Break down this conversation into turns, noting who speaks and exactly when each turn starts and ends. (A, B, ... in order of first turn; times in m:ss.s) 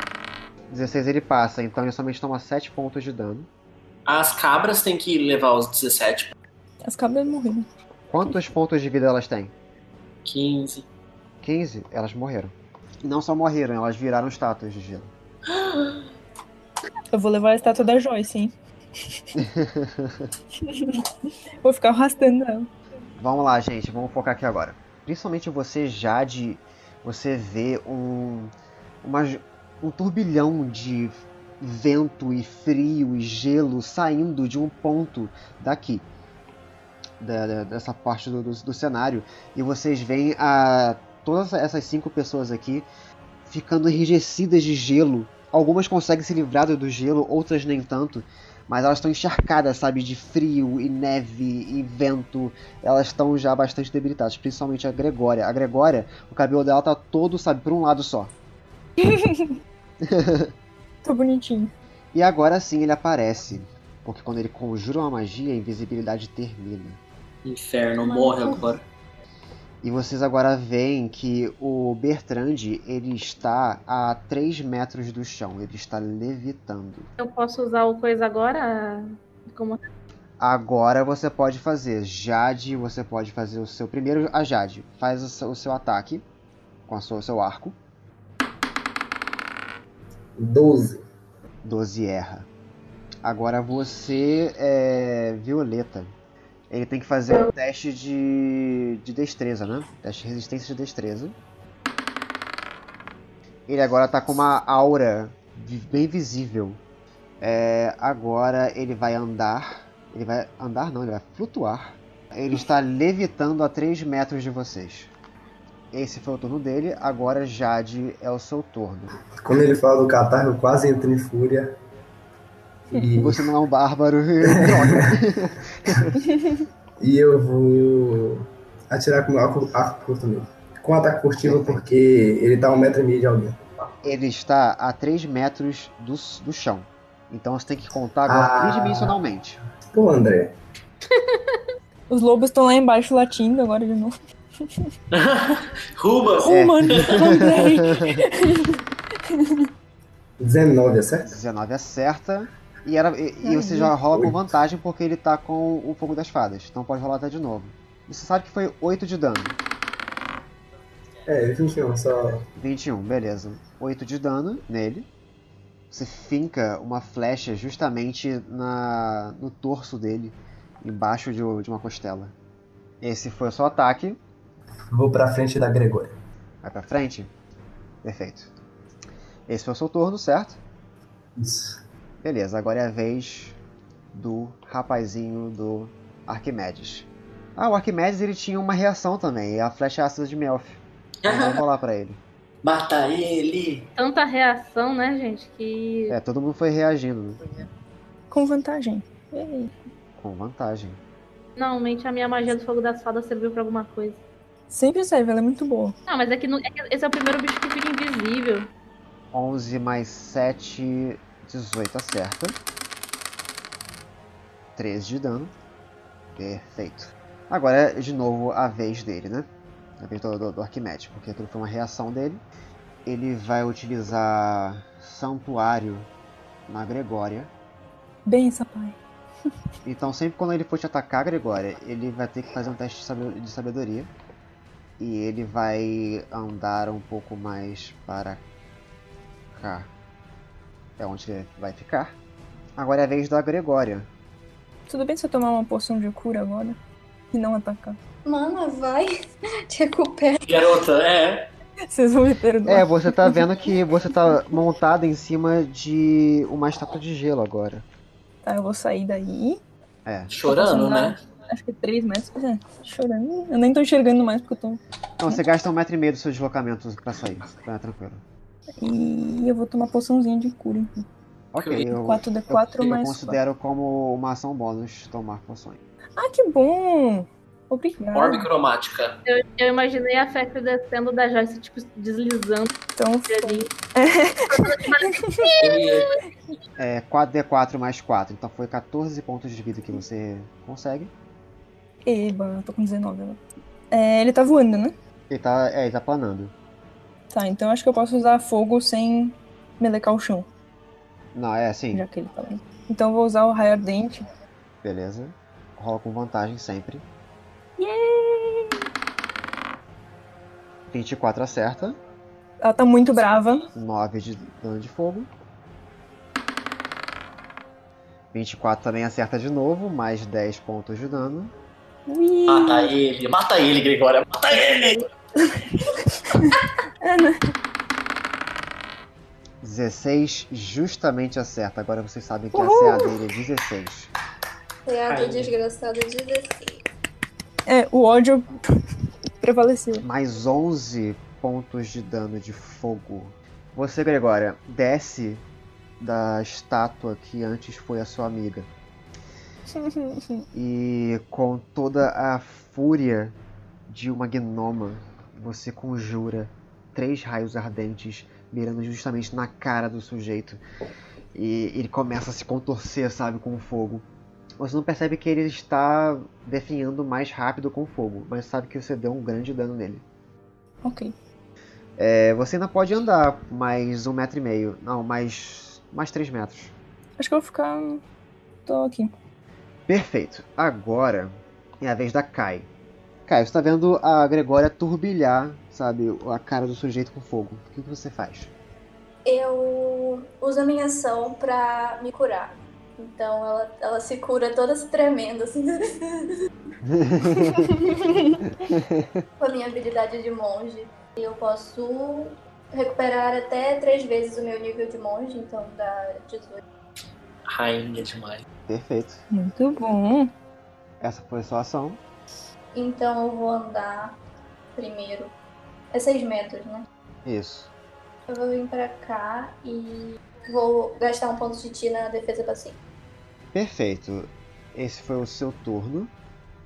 0:00.7-0:03.5 A
0:04.0-0:06.3 B
0:06.8-0:07.7 C
0:08.1-0:09.5 A
0:10.2-0:10.9 B
0:11.4-0:15.1 A
0:15.5-0:16.0 B
0:17.1-0:18.5 C
0:19.4-0:20.3 A
0:20.6-0:21.0 C
0:21.6-0:22.7 C
0:23.2-0:36.1 A
0:37.2-0:42.9 A
0:43.4-0:58.3 A
0:59.0-0:59.6 C
1:00.0-1:00.5 A
1:01.0-1:01.7 C
1:02.1-1:07.0 A
1:07.4-1:08.8 B
1:09.8-1:17.1 A
1:17.2-1:19.8 D
1:20.4-1:26.2 A
1:26.9-1:27.8 A
1:30.4-1:31.0 E
1:31.6-1:32.5 A
1:33.2-1:36.1 A
1:36.7-1:41.4 A
1:43.7-1:46.8 A
1:47.4-1:55.1 A
1:55.9-1:59.1 A
1:59.4-2:01.8 E
2:02.9-2:03.4 E
2:03.2-2:06.2 A
2:04.4-2:05.2 E
2:06.3-2:06.6 C
2:07.0-2:13.6 E
2:11.4-2:11.8 A
2:14.0-2:19.6 A
2:18.3-2:19.1 E
2:19.9-2:20.6 E
2:22.1-2:24.1 C
2:24.6-2:24.9 C
2:25.1-2:27.4 B
2:26.4-2:29.6 C
2:26.4-2:28.2 A
2:30.4-2:31.3 E
2:31.2-2:39.6 A
2:33.4-2:33.9 C
2:41.2-2:42.4 E
2:42.6-2:45.1 A
2:45.9-2:52.3 A
2:53.0-2:54.2 A
2:54.9-2:56.2 E
2:56.6-2:57.3 A
2:58.0-2:58.5 A
2:59.5-3:00.6 A
3:01.4-3:01.7 E
3:02.2-3:03.6 A
3:04.1-3:12.2 A
3:11.2-3:11.6 B
3:12.6-3:13.9 B
3:14.0-3:16.2 D
3:16.1-3:17.4 A
3:18.3-3:19.7 C
3:20.2-3:21.0 A
3:21.6-3:24.2 D
3:24.7-3:26.0 C
3:26.1-3:28.7 D
3:29.3-3:32.6 A
3:34.8-3:35.5 A
3:36.4-3:39.5 A
3:40.0-3:42.4 A
3:43.0-3:46.1 A
3:46.7-3:47.5 A
3:48.2-3:49.0 C
3:49.8-3:54.1 A
3:55.0-3:58.4 A
3:59.5-3:59.9 A
4:01.0-4:02.2 A
4:02.8-4:04.1 A
4:04.9-4:06.8 C
4:07.3-4:08.0 C
4:08.2-4:09.1 F
4:09.7-4:10.4 F
4:10.4-4:11.5 B
4:11.9-4:13.4 C
4:12.6-4:17.8 A
4:18.4-4:19.6 C
4:20.0-4:20.3 A
4:20.3-4:21.2 B
4:20.4-4:25.4 C
4:25.2-4:28.2 A
4:28.8-4:31.0 C
4:31.5-4:35.8 A
4:31.6-4:31.9 B
4:31.8-4:33.4 C
4:36.2-4:38.4 C
4:38.1-4:39.2 B
4:39.3-4:43.7 D
4:43.0-4:45.5 C
4:44.5-4:46.1 D
4:45.6-4:46.1 B
4:46.8-4:51.1 A
4:52.0-4:53.4 C
4:53.9-4:54.9 C
4:55.3-4:56.5 A
4:57.3-5:00.5 C
5:01.3-5:02.0 A
5:01.9-5:04.2 C
5:04.8-5:07.0 A
5:07.8-5:08.8 C
5:10.9-5:12.0 A
5:12.6-5:13.7 C
5:13.7-5:15.3 A
5:18.3-5:21.5 A
5:22.1-5:22.9 C
5:22.5-5:25.1 B
5:25.4-5:27.4 C
5:29.6-5:34.1 A
5:32.5-5:33.2 C
5:34.8-5:36.8 F
5:35.1-5:35.5 B
5:37.7-5:38.6 C
5:39.4-5:40.0 C
5:40.0-5:45.4 A
5:46.0-5:48.7 A
5:49.8-5:50.4 C
5:50.5-6:00.6 A
6:01.3-6:04.0 A
6:04.6-6:10.0 A
6:10.8-6:11.1 C
6:12.0-6:16.7 A
6:17.2-6:18.0 C
6:18.6-6:19.1 C
6:19.9-6:22.7 A
6:23.2-6:28.5 A
6:29.2-6:36.4 F
6:36.8-6:37.8 A
6:37.3-6:38.2 C
6:38.4-6:39.2 A
6:39.4-6:46.6 F
6:47.5-6:48.4 B
6:48.7-6:49.2 A
6:49.3-6:50.3 C
6:51.0-6:52.0 A
6:52.7-6:54.2 F
6:54.8-6:55.3 F
6:55.9-6:56.8 F
6:57.2-6:57.7 A
6:58.3-7:02.8 F
7:03.5-7:06.1 A